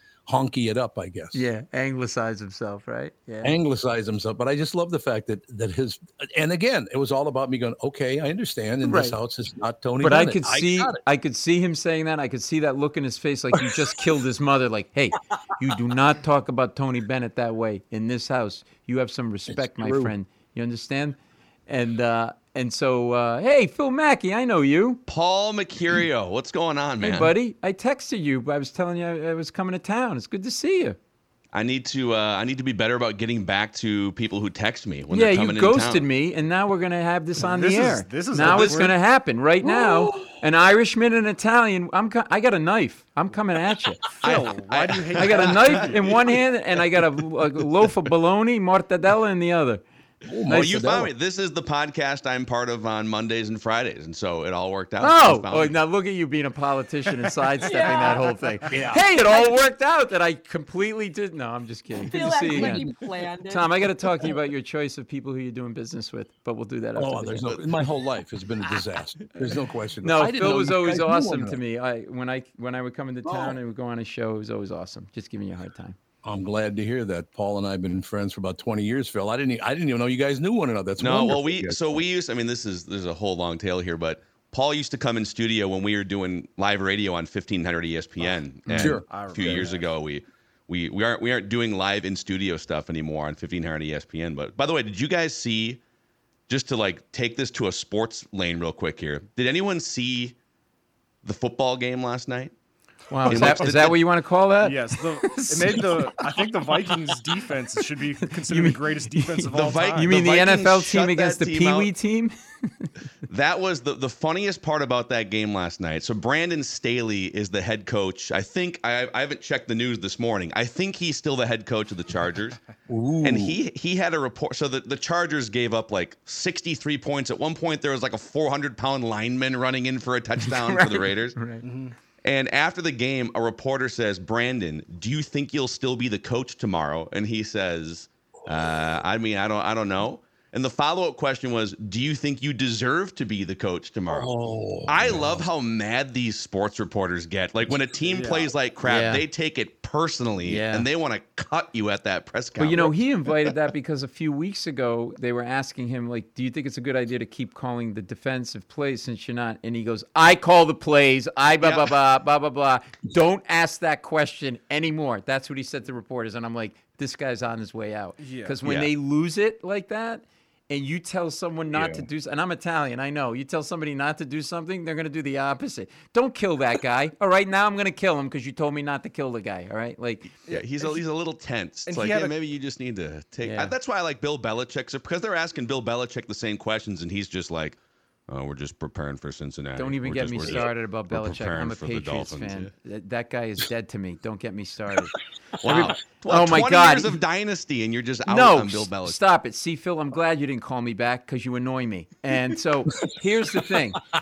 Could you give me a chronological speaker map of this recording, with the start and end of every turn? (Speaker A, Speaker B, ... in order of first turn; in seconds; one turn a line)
Speaker A: 0.3-1.4
Speaker B: 1.3-3.6
Speaker A: 3.4-11.0
Speaker B: 8.8-9.2
Speaker B: 10.0-25.0
Speaker A: 19.5-20.1
Speaker C: 25.1-27.3
Speaker B: 27.0-31.0
Speaker C: 31.5-36.1
Speaker B: 35.1-44.0
Speaker D: 37.4-39.0
Speaker A: 39.6-40.2
Speaker D: 44.2-46.3
Speaker C: 44.2-45.9
Speaker B: 45.2-49.8
Speaker A: 50.3-51.1
Speaker C: 50.5-55.8
Speaker B: 55.0-62.9
Speaker E: 57.6-58.4
Speaker A: 58.7-59.0
Speaker E: 62.1-63.9
Speaker A: 62.5-63.0
Speaker B: 63.5-67.6
Speaker A: 67.0-71.6
Speaker B: 70.0-76.0
Speaker A: 73.2-73.6
Speaker A: 76.2-82.0
Speaker C: 81.0-95.8
Speaker D: 88.7-89.9
Speaker A: 88.8-89.7
Speaker C: 96.5-100.4
Speaker C: 101.2-102.5
Speaker B: 103.1-106.2
Speaker D: 103.3-103.6
Speaker C: 103.3-104.0
Speaker D: 104.6-110.1
Speaker B: 108.3-112.9
Speaker C: 109.5-111.9
Speaker C: 113.3-122.6
Speaker A: 122.9-123.5
Speaker C: 123.2-131.4
Speaker B: 130.4-131.7
Speaker D: 131.6-131.9
Speaker C: 132.2-144.3
Speaker A: 144.1-145.5
Speaker C: 144.9-152.9
Speaker D: 148.1-148.5
Speaker B: 148.8-149.2
Speaker B: 150.4-150.9
Speaker B: 152.6-180.3
Speaker C: 161.6-161.9
Speaker D: 168.2-168.6
Speaker C: 168.6-168.9
Speaker A: 171.7-172.1
Speaker D: 180.5-181.0
Speaker C: 180.5-187.8
Speaker D: 181.9-182.3
Speaker B: 183.4-183.7
Speaker C: 188.3-192.7
Speaker B: 189.8-197.2
Speaker C: 195.6-199.2
Speaker B: 198.3-204.0